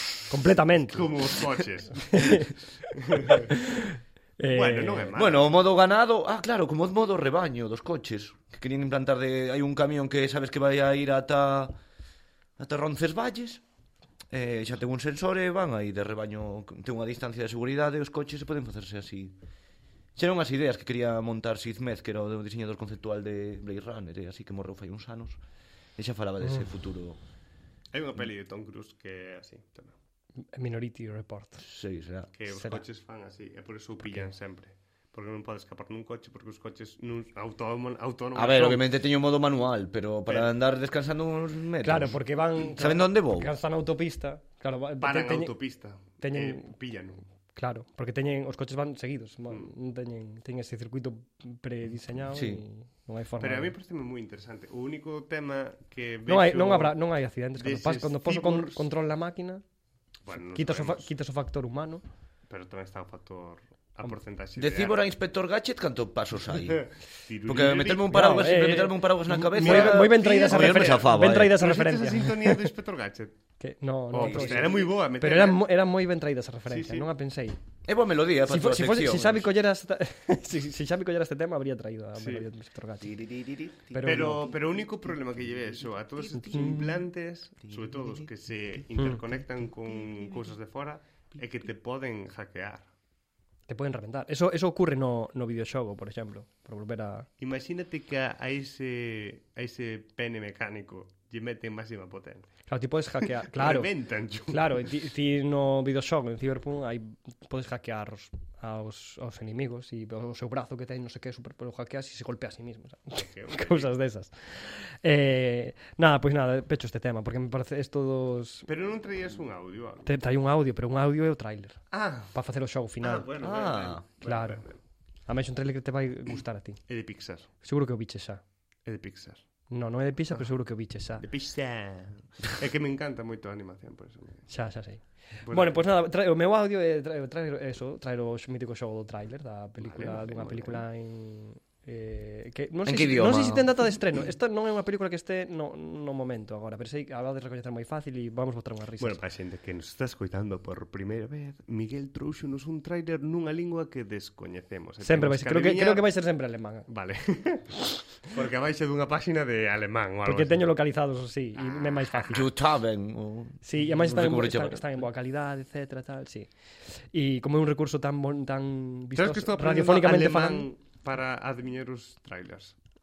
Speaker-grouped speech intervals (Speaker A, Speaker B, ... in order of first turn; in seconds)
Speaker A: 0.3-1.2, 2.0-5.1, 30.5-31.6, 32.5-32.8, 34.0-34.3, 41.8-45.6, 46.2-46.7, 47.5-53.7, 56.2-59.6, 60.5-62.0, 68.1-72.7, 73.6-77.6, 78.5-83.1, 83.9-84.5, 86.4-86.8, 93.7-97.3, 102.7-103.9, 104.5-118.7, 120.0-121.8, 122.3-123.3, 124.2-124.6, 125.2-126.8, 127.6-128.4, 129.7-131.2, 134.5-149.2, 155.0-156.9, 160.2-162.5, 163.6-166.5, 167.1-170.7
Speaker B: 0.8-3.5, 4.5-5.5, 27.9-29.9, 32.4-38.9, 40.3-40.5, 45.0-47.2, 53.4-57.0, 57.5-58.9, 60.2-61.1, 62.5-65.0, 66.5-68.6, 69.4-73.3, 74.1-75.6, 76.7-77.1, 82.2-82.5, 84.0-92.9, 97.4-102.5, 103.2-104.9, 113.2-113.9, 118.7-120.1, 121.9-122.3, 123.0-124.8, 126.9-127.5, 128.8-129.4, 131.2-134.4, 135.4-135.9, 139.8-140.8, 149.0-156.1, 156.9-160.7, 169.1-172.8
Speaker C: 5.2-11.7, 12.6-13.6, 14.3-19.3, 20.1-25.4, 26.0-27.2, 31.6-32.3, 38.3-43.5, 52.3-52.6, 64.5-66.9, 67.5-71.6, 74.2-74.7, 77.8-79.5, 83.0-84.4, 86.2-86.9, 87.6-88.3, 123.4-124.1, 142.8-144.0, 162.3-165.0